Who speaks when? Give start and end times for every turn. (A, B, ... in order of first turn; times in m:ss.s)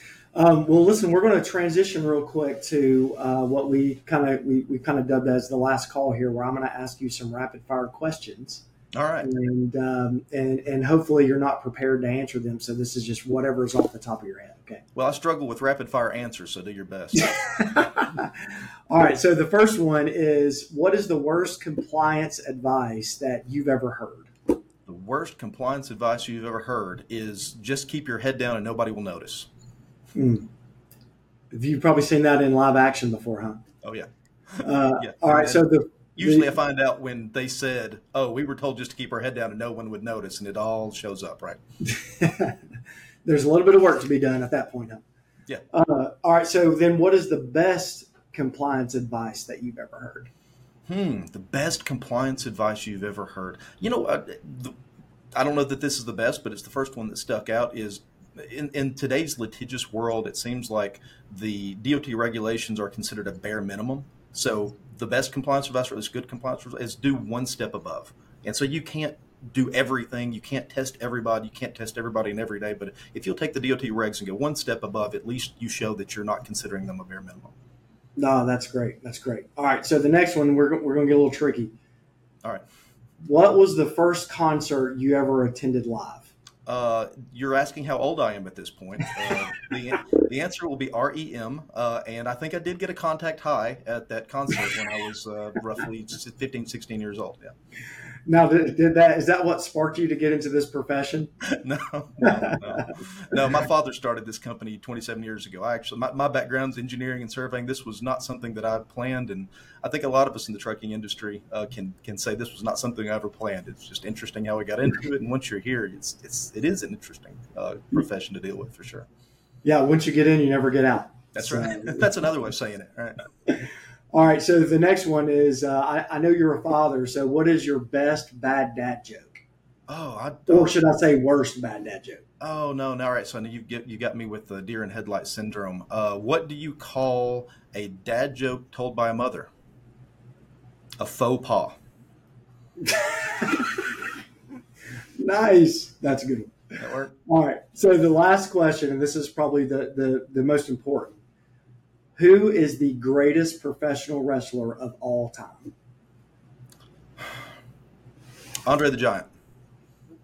0:00.3-0:08.6 A
0:08.9-0:09.3 B
0:09.2-0:14.8 A
0:15.0-0:17.4 B
0:17.2-0:24.3 A
0:24.9-0:29.5 B
0:30.2-0:30.5 A
0:31.5-0:33.6 A
0:33.8-0:41.6 B
0:34.6-0:36.5 A
0:41.9-0:42.6 A
0:43.2-0:45.0 A
0:45.7-0:50.3 A
0:50.9-0:54.8 B
0:55.4-1:17.5 B
1:18.2-1:21.8 A
1:23.2-1:26.3 A
1:26.7-1:37.5 B
1:38.3-1:41.3 A
1:41.4-1:59.1 B
1:42.2-1:42.9 A
1:59.6-2:02.1 A
2:01.4-2:03.2 B
2:03.5-2:09.4 A
2:09.9-2:10.8 B
2:10.5-2:12.2 A
2:12.4-2:19.5 B
2:21.0-2:21.8 B
2:22.8-2:23.9 A
2:25.2-2:26.6 A
2:26.8-2:27.1 B
2:27.3-2:31.2 A
2:32.2-2:35.7 A
2:38.7-2:39.3 B